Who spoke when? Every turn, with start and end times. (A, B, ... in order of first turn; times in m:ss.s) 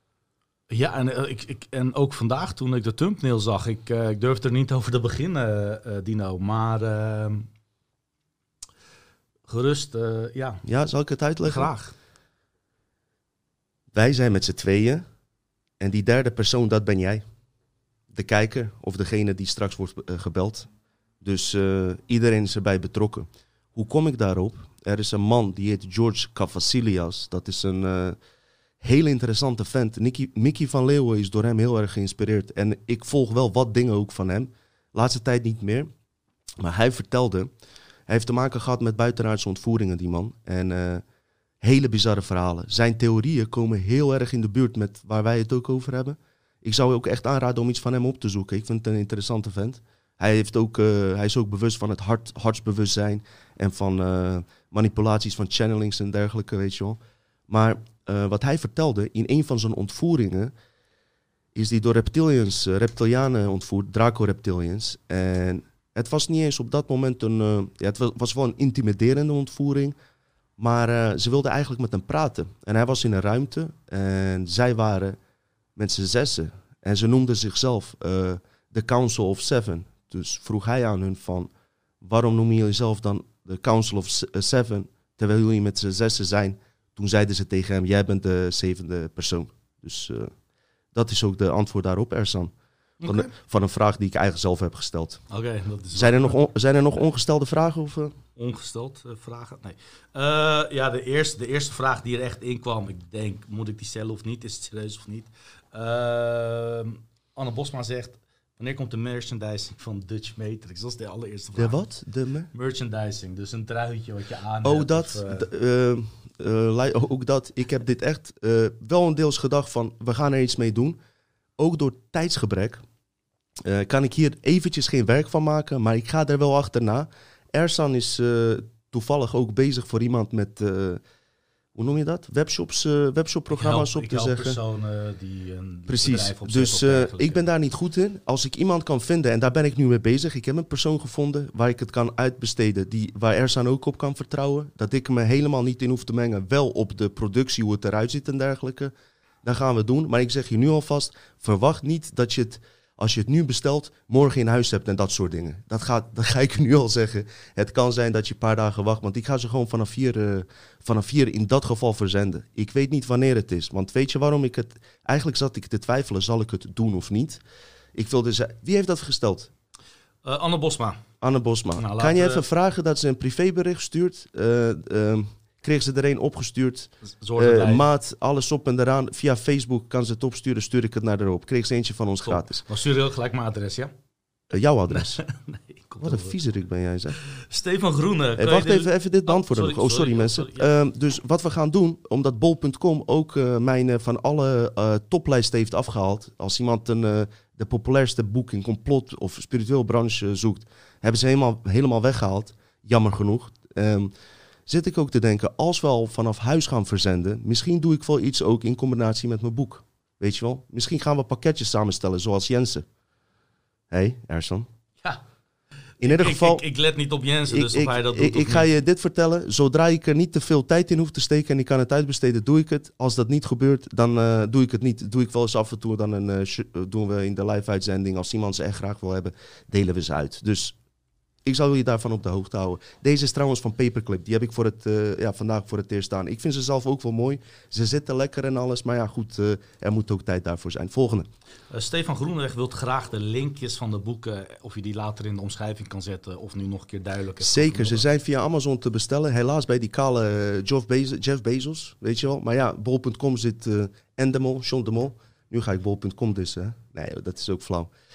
0:00.7-0:07.5 A
0:09.5-0:10.6 A
0:10.6-0:11.7 B
0:11.4-0:12.0 A
0:13.9-0:15.0 B
0:15.8-0:17.2 B
0:18.1-0:20.7 B
0:21.2-0:28.2 B
0:28.8-0:35.9 B
0:36.6-0:37.5 B
0:38.1-0:41.0 B
0:41.6-1:00.5 B
1:01.5-1:10.0 B
1:10.6-1:15.2 B
1:15.8-1:21.5 B
1:22.0-1:30.3 B
1:30.9-1:32.5 B
1:33.0-1:33.3 A
1:33.0-1:35.2 B
1:35.3-1:36.4 A
1:35.9-1:38.2 B
1:38.4-1:51.8 A
1:51.6-1:52.5 B
1:52.5-1:55.5 A
1:54.6-2:01.0 B
2:01.6-2:02.8 B
2:03.6-2:11.0 B
2:11.8-2:14.6 B
2:13.5-2:17.4 A
2:15.9-2:28.9 B
2:29.4-2:47.4 B
2:47.9-2:49.5 B
2:50.2-2:51.0 A
2:51.2-3:02.6 B
2:51.8-2:52.4 A
2:57.2-2:57.9 A
3:02.2-3:03.9 A
3:04.5-3:05.2 B
3:04.9-3:06.3 A
3:06.0-3:07.2 B
3:07.2-3:10.7 A
3:08.4-3:24.1 B
3:24.7-3:32.8 B
3:33.9-3:34.7 B
3:36.0-3:36.6 B
3:36.0-3:38.7 A
3:37.5-3:50.8 B
3:51.4-4:01.3 B
4:01.7-4:08.0 A
4:07.4-4:17.9 B